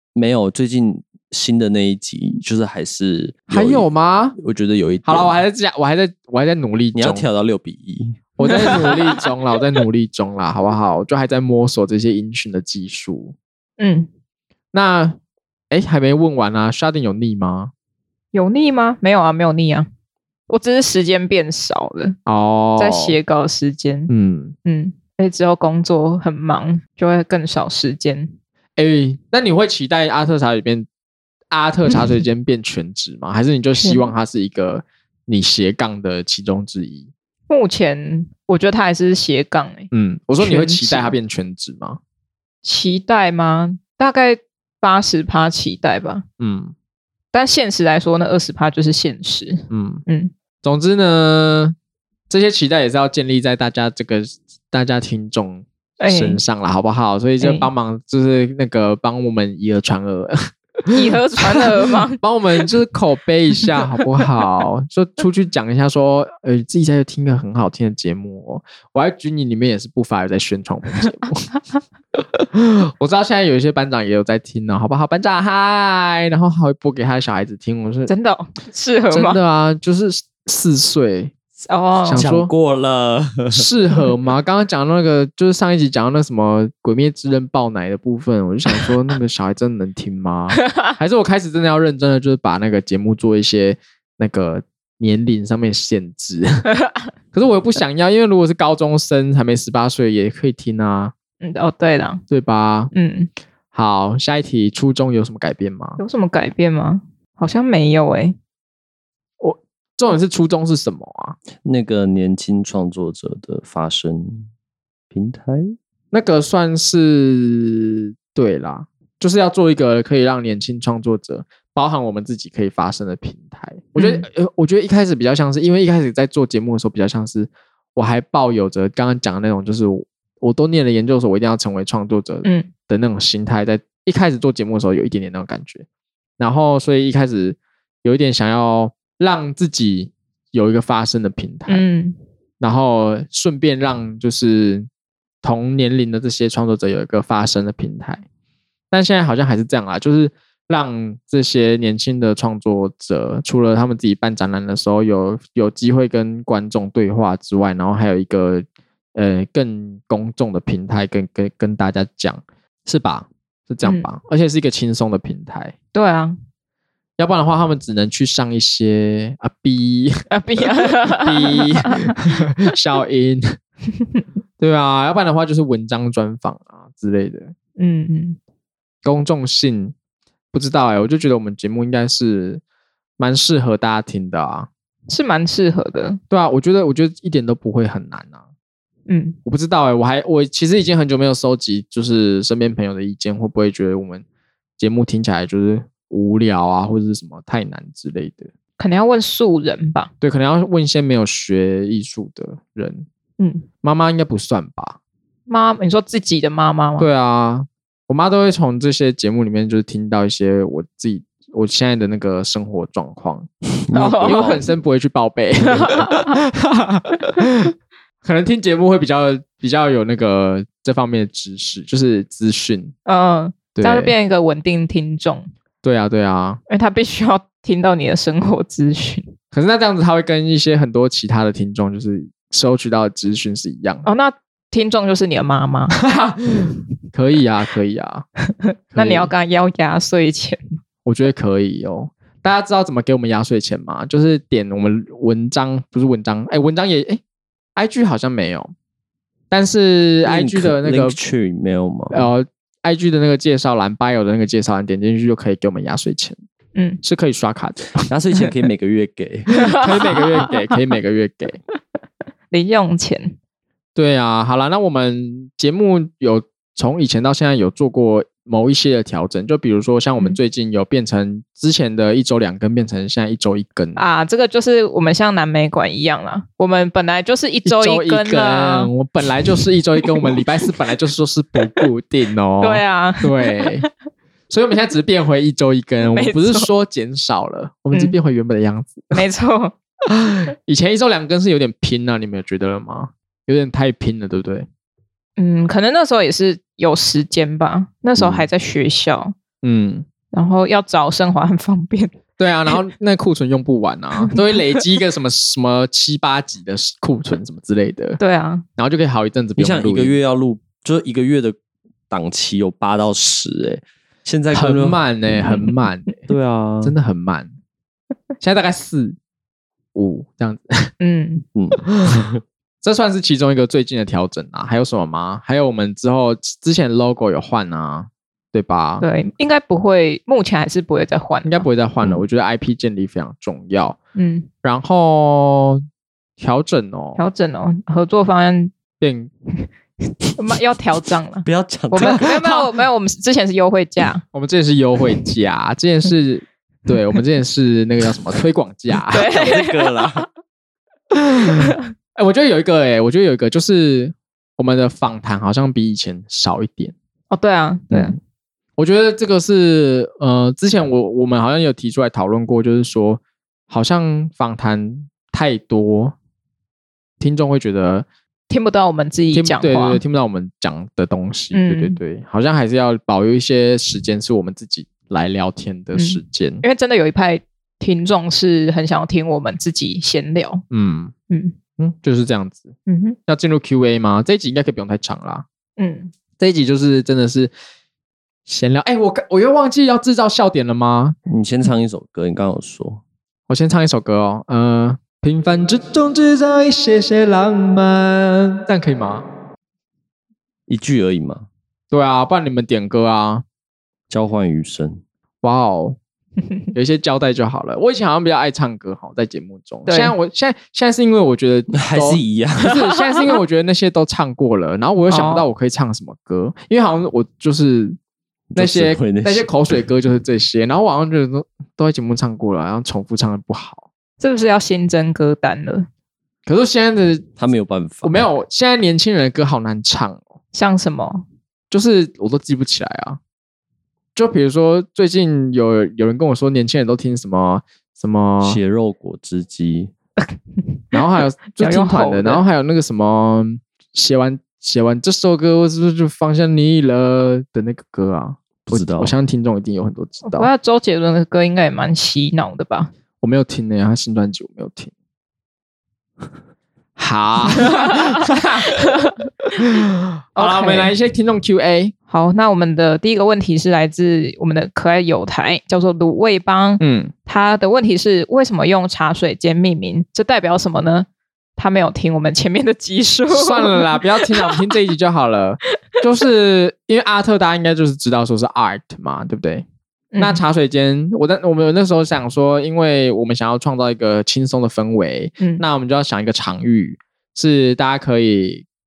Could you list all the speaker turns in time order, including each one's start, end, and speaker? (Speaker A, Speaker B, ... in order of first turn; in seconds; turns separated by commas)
Speaker A: 0.1-3.9, Speaker B: 3.5-4.3, Speaker A: 4.4-5.3, Speaker B: 5.0-7.2, Speaker A: 6.9-8.9, Speaker B: 8.4-13.3, Speaker C: 8.6-8.9, Speaker C: 13.8-14.1, Speaker B: 14.7-15.2, Speaker B: 15.7-17.7, Speaker C: 18.3-19.9, Speaker C: 20.5-22.2, Speaker B: 22.2-23.2, Speaker C: 22.8-24.1, Speaker B: 24.1-24.5, Speaker C: 24.6-28.3, Speaker B: 28.8-30.9, Speaker B: 31.5-37.1, Speaker C: 33.8-34.1, Speaker C: 37.5-41.1, Speaker B: 39.9-42.0, Speaker C: 42.6-46.2, Speaker B: 46.4-46.7, Speaker C: 47.3-50.3, Speaker B: 49.7-50.0, Speaker B: 50.6-51.7, Speaker B: 52.3-61.6, Speaker C: 56.0-56.4, Speaker C: 57.4-57.7, Speaker C: 60.9-62.2, Speaker B: 62.2-71.5, Speaker B: 72.1-78.1, Speaker C: 78.1-79.4, Speaker B: 79.1-81.3, Speaker C: 81.6-82.2, Speaker B: 82.0-82.5, Speaker A: 82.1-83.6, Speaker B: 83.5-96.7, Speaker B: 97.3-101.1, Speaker C: 101.4-102.2, Speaker B: 102.3-102.9, Speaker C: 102.9-103.3, Speaker B: 103.7-106.0, Speaker C: 106.0-108.4, Speaker B: 109.4-111.4, Speaker A: 111.6-114.5, Speaker A: 115.1-115.7, Speaker B: 116.1-135.8, Speaker C: 124.0-124.3, Speaker C: 132.4-132.7, Speaker B: 136.4-141.8, Speaker C: 141.7-142.2, Speaker B: 142.6-144.9, Speaker B: 145.4-148.2, Speaker B: 148.9-165.7, Speaker C: 165.9-166.4, Speaker B: 167.2-170.2, Speaker C: 170.3-172.2, Speaker B: 171.1-173.6, Speaker B: 174.6-177.5, Speaker C: 177.8-178.4, Speaker B: 179.0-179.9, Speaker B: 180.5-182.6, Speaker B: 183.2-184.7, Speaker C: 185.1-186.2, Speaker B: 186.3-188.4, Speaker C: 189.1-189.4, Speaker B: 189.4-194.2, Speaker B: 194.8-198.5, Speaker C: 198.8-200.1, Speaker B: 200.2-203.1, Speaker C: 203.4-203.7, Speaker B: 203.8-205.0, Speaker C: 205.5-207.1, Speaker B: 207.0-213.5, Speaker A: 213.9-214.6, Speaker C: 213.9-214.7, Speaker B: 214.2-222.9, Speaker C: 215.7-216.3, Speaker C: 223.1-225.5, Speaker B: 223.8-224.1, Speaker B: 225.8-226.6, Speaker C: 226.7-229.3, Speaker B: 229.5-234.0, Speaker C: 234.0-236.0, Speaker B: 236.0-238.2, Speaker C: 238.9-240.8, Speaker B: 238.9-239.3, Speaker B: 241.0-247.2, Speaker B: 247.8-248.7, Speaker B: 249.5-251.2, Speaker A: 250.2-252.3, Speaker B: 252.1-256.4, Speaker C: 256.7-257.0, Speaker B: 257.0-258.1, Speaker A: 258.1-259.8, Speaker B: 259.7-261.6, Speaker C: 259.7-260.3, Speaker C: 262.5-263.4, Speaker B: 263.9-274.0, Speaker C: 273.9-278.9, Speaker B: 277.6-283.9, Speaker C: 279.5-280.8, Speaker C: 282.6-283.8, Speaker B: 284.5-289.2, Speaker C: 286.1-286.7, Speaker C: 289.1-289.7, Speaker B: 290.2-294.7, Speaker C: 295.4-299.3, Speaker A: 298.2-298.4, Speaker B: 299.6-300.1, Speaker C: 300.3-302.1, Speaker B: 302.4-308.2, Speaker C: 308.2-308.6, Speaker B: 308.8-310.1, Speaker A: 309.6-311.6, Speaker A: 312.1-315.6, Speaker B: 314.5-316.2, Speaker A: 316.3-316.9, Speaker B: 316.8-317.5, Speaker B: 318.4-319.1, Speaker B: 319.9-320.9, Speaker C: 321.0-321.4, Speaker A: 321.5-322.4, Speaker B: 321.9-322.2, Speaker B: 322.8-329.0, Speaker C: 329.0-331.7, Speaker B: 331.4-334.0, Speaker C: 334.1-334.5, Speaker B: 334.6-335.8, Speaker B: 336.4-337.2, Speaker C: 337.1-338.7, Speaker B: 339.0-339.3, Speaker C: 340.4-344.2, Speaker A: 341.4-342.6, Speaker B: 344.3-349.3, Speaker C: 349.1-350.2, Speaker A: 349.2-350.3, Speaker B: 351.1-356.9, Speaker C: 357.3-358.1, Speaker B: 358.8-366.1, Speaker B: 367.2-368.1, Speaker C: 368.5-370.0, Speaker B: 369.3-376.6, Speaker C: 371.5-372.0, Speaker C: 375.9-380.6, Speaker B: 380.7-381.1, Speaker C: 381.3-381.6, Speaker B: 381.8-382.7, Speaker C: 382.9-383.2, Speaker B: 383.3-385.4, Speaker C: 385.8-386.1, Speaker B: 386.4-387.5, Speaker B: 388.5-391.1, Speaker A: 391.2-393.0, Speaker B: 393.5-399.2, Speaker A: 400.7-401.5, Speaker B: 401.9-403.4, Speaker A: 404.1-405.0, Speaker B: 405.4-406.0, Speaker B: 406.7-418.0, Speaker C: 409.9-410.1, Speaker A: 411.7-412.8, Speaker C: 415.1-415.4, Speaker A: 418.5-419.5, Speaker B: 418.6-423.8, Speaker C: 424.2-425.9, Speaker B: 426.4-427.3, Speaker A: 427.4-428.2, Speaker B: 428.0-430.2, Speaker C: 430.5-431.2, Speaker B: 431.7-433.2, Speaker B: 434.1-438.6, Speaker A: 438.4-439.9, Speaker B: 440.9-450.5, Speaker C: 441.6-442.4, Speaker A: 448.7-449.1, Speaker C: 450.2-452.9, Speaker B: 453.2-454.9, Speaker B: 457.0-458.8, Speaker C: 457.7-458.0, Speaker C: 458.8-459.1, Speaker B: 459.6-461.9, Speaker C: 460.4-460.9, Speaker C: 462.1-474.6, Speaker B: 466.8-467.1, Speaker B: 473.3-479.6, Speaker C: 480.1-480.4, Speaker B: 480.2-488.6